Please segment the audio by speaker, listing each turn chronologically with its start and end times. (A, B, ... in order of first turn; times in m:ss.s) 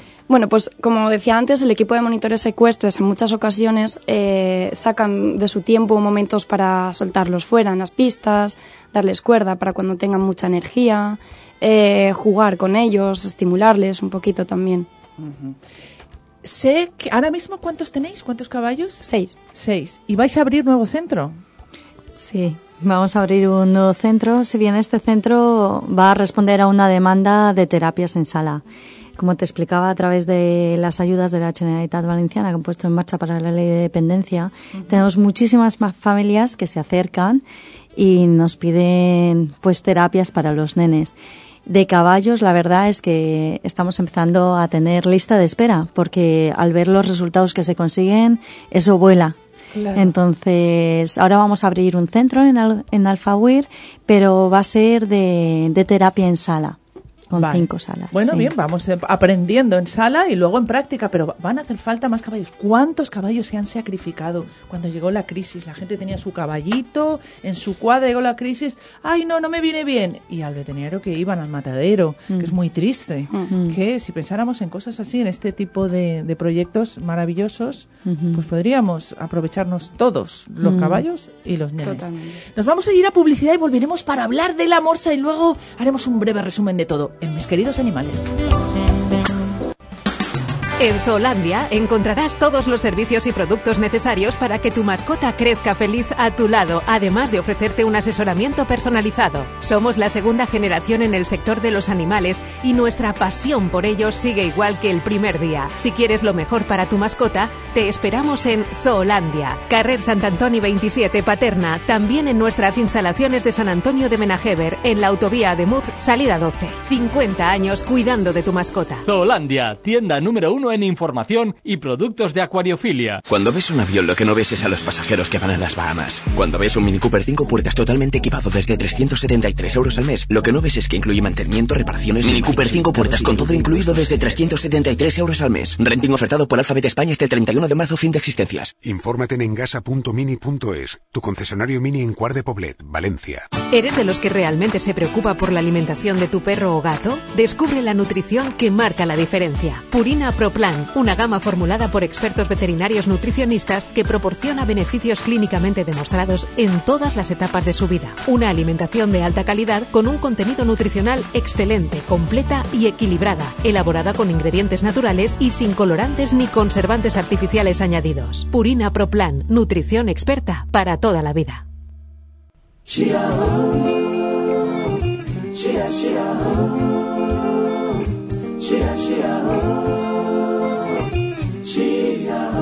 0:00.3-0:14.9 A
0:15.2-0:15.6 B
0:16.4-0:21.4 B
0:19.0-0:19.4 A
0:22.1-0:28.6 C
0:29.2-0:37.4 C
0:34.7-0:35.0 B
0:38.0-0:49.4 C
0:49.7-0:50.1 B
0:49.9-0:56.8 C
0:57.3-0:58.5 C
0:57.4-1:28.3 B
1:13.5-1:13.8 C
1:18.0-1:18.5 C
1:20.6-1:21.0 C
1:21.8-1:22.4 A
1:30.8-1:59.0 D
1:59.1-2:03.2 E
2:03.3-2:18.7 F
2:18.8-2:23.5 G
2:23.7-2:51.6 D